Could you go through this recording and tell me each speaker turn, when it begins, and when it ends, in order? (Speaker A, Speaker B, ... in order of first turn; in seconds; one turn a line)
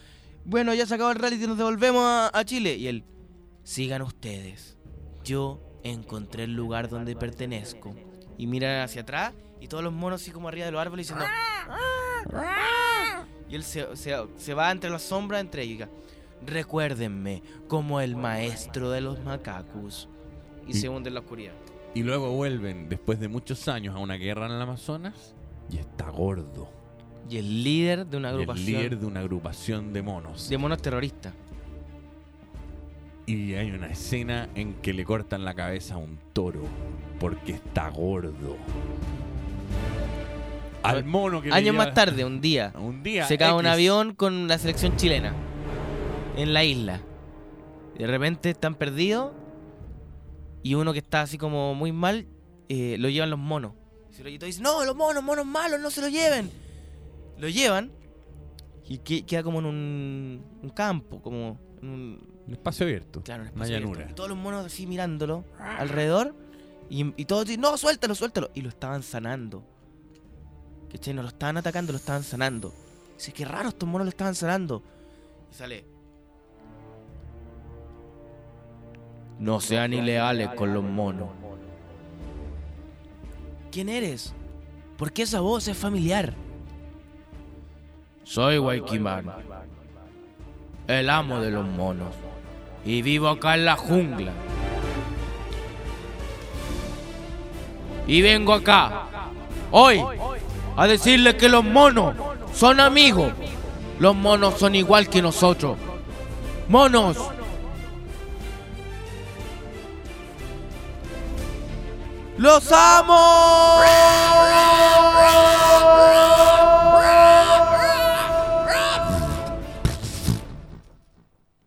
Speaker A: 0.5-3.0
Speaker A: 3.7-11.3
Speaker B: 12.3-13.2
Speaker A: 13.5-20.1
Speaker A: 20.6-21.6
Speaker B: 21.9-26.7
Speaker A: 27.2-29.0
Speaker B: 28.3-30.5
Speaker A: 30.5-31.4
Speaker B: 33.3-38.7
Speaker B: 40.8-44.0
Speaker A: 40.9-45.4
Speaker A: 46.4-47.0
Speaker A: 48.0-49.4
Speaker A: 50.6-56.5
Speaker A: 57.4-57.9
Speaker A: 58.9-62.4
Speaker B: 62.5-64.1
Speaker A: 63.2-66.3
Speaker A: 66.9-69.7
Speaker A: 70.9-74.8
Speaker A: 75.5-75.9
Speaker A: 79.4-81.3
Speaker A: 83.7-84.3
Speaker A: 85.0-86.4
Speaker A: 88.3-89.4
Speaker A: 90.9-92.2
Speaker A: 92.8-94.4
Speaker A: 98.1-99.0
Speaker A: 99.7-100.1
Speaker A: 100.8-103.4
Speaker A: 104.0-105.8
Speaker A: 106.7-107.3
Speaker A: 112.4-114.2
Speaker B: 115.7-119.2